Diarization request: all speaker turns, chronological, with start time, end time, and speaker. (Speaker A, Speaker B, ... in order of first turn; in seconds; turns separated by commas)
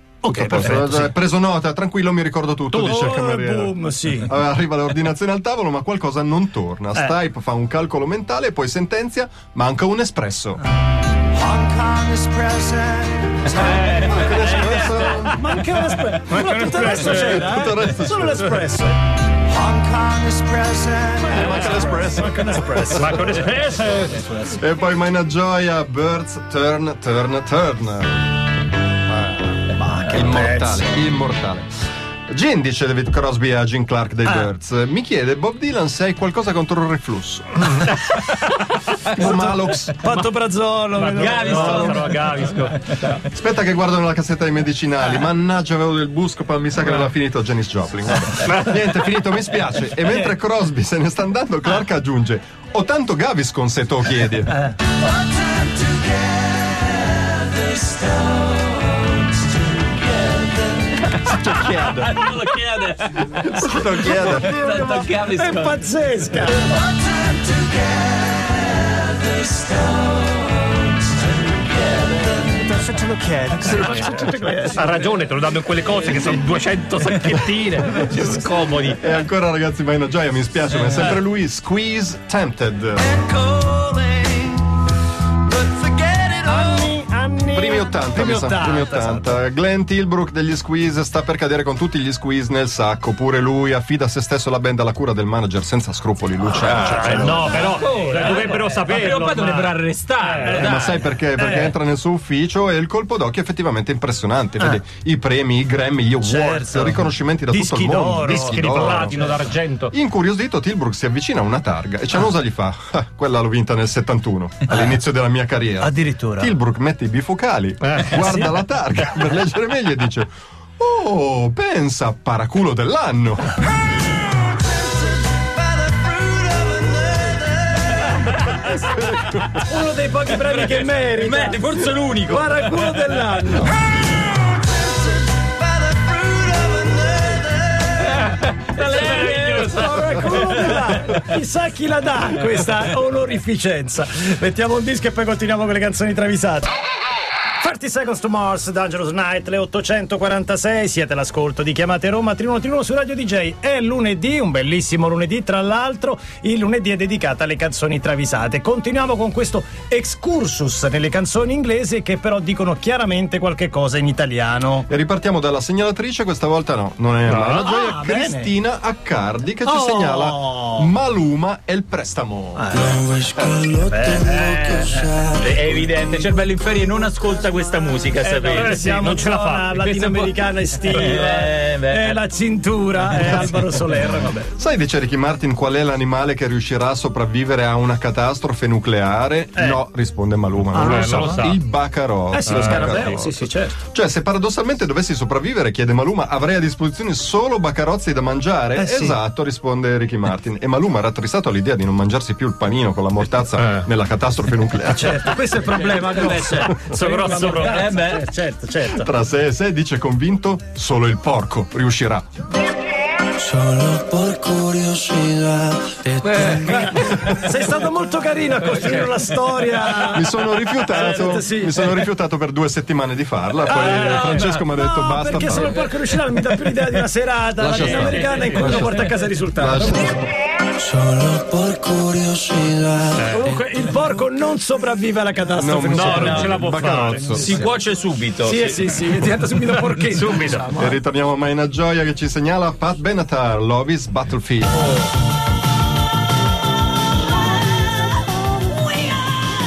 Speaker A: 0.2-1.1, Speaker B: 0.3-10.6, Speaker A: 2.7-4.3, Speaker A: 11.3-24.6, Speaker C: 13.6-15.1, Speaker B: 13.7-15.4, Speaker B: 16.3-18.6, Speaker B: 21.3-23.2, Speaker C: 22.9-24.2, Speaker B: 24.4-28.3, Speaker B: 29.1-31.7, Speaker A: 29.8-31.0, Speaker B: 32.3-37.9, Speaker B: 39.1-40.0, Speaker A: 39.1-42.2, Speaker C: 41.0-42.8, Speaker D: 41.1-43.2, Speaker B: 43.3-54.7, Speaker C: 48.5-48.8, Speaker D: 57.1-58.6, Speaker B: 61.0-62.2, Speaker D: 61.1-65.8, Speaker B: 63.4-64.9, Speaker A: 64.4-66.8, Speaker D: 69.4-69.8, Speaker A: 72.3-75.0, Speaker C: 73.8-79.0, Speaker A: 77.9-78.4, Speaker D: 78.2-78.6, Speaker B: 79.0-83.1, Speaker A: 83.2-84.5, Speaker A: 86.0-89.4, Speaker B: 87.5-97.7, Speaker C: 96.6-100.7, Speaker D: 96.7-101.0, Speaker A: 96.9-98.5, Speaker A: 99.1-99.7, Speaker B: 100.5-109.2, Speaker A: 101.4-101.8, Speaker A: 106.2-109.4, Speaker C: 108.4-109.9, Speaker B: 109.9-123.6, Speaker A: 114.7-115.0, Speaker A: 115.8-116.5, Speaker A: 126.1-127.4, Speaker B: 128.8-129.5, Speaker A: 129.6-133.8, Speaker D: 130.4-133.0, Speaker A: 134.6-135.0, Speaker A: 135.9-137.8, Speaker D: 138.0-141.3, Speaker A: 138.8-146.7, Speaker C: 139.0-139.9, Speaker A: 147.6-164.9, Speaker B: 164.9-172.8, Speaker A: 167.6-168.5, Speaker A: 169.6-170.9, Speaker A: 172.6-173.1, Speaker A: 173.8-175.1, Speaker E: 174.3-174.6, Speaker D: 175.3-179.0, Speaker C: 178.2-180.4, Speaker A: 178.5-184.5, Speaker D: 180.9-182.2, Speaker B: 184.6-205.4, Speaker A: 189.6-189.8, Speaker A: 190.7-191.5, Speaker C: 190.7-191.6, Speaker A: 192.3-193.8, Speaker C: 192.4-193.1, Speaker A: 198.7-199.2, Speaker A: 204.9-209.1, Speaker D: 205.7-208.3, Speaker C: 206.9-207.9, Speaker B: 208.9-212.2, Speaker E: 213.3-216.9, Speaker C: 216.3-217.3, Speaker A: 216.6-220.3, Speaker B: 217.0-217.5, Speaker B: 220.1-225.9, Speaker A: 220.9-222.0, Speaker C: 223.7-224.5, Speaker A: 223.7-230.3, Speaker E: 227.6-228.9, Speaker C: 227.8-229.1, Speaker B: 229.6-230.1, Speaker E: 230.7-233.1, Speaker C: 233.2-233.6, Speaker A: 233.3-237.7, Speaker B: 235.6-237.5, Speaker C: 235.9-237.4, Speaker D: 236.0-236.6, Speaker D: 237.3-239.1, Speaker A: 238.4-241.0, Speaker C: 239.7-240.6, Speaker B: 240.8-244.9, Speaker D: 249.0-249.3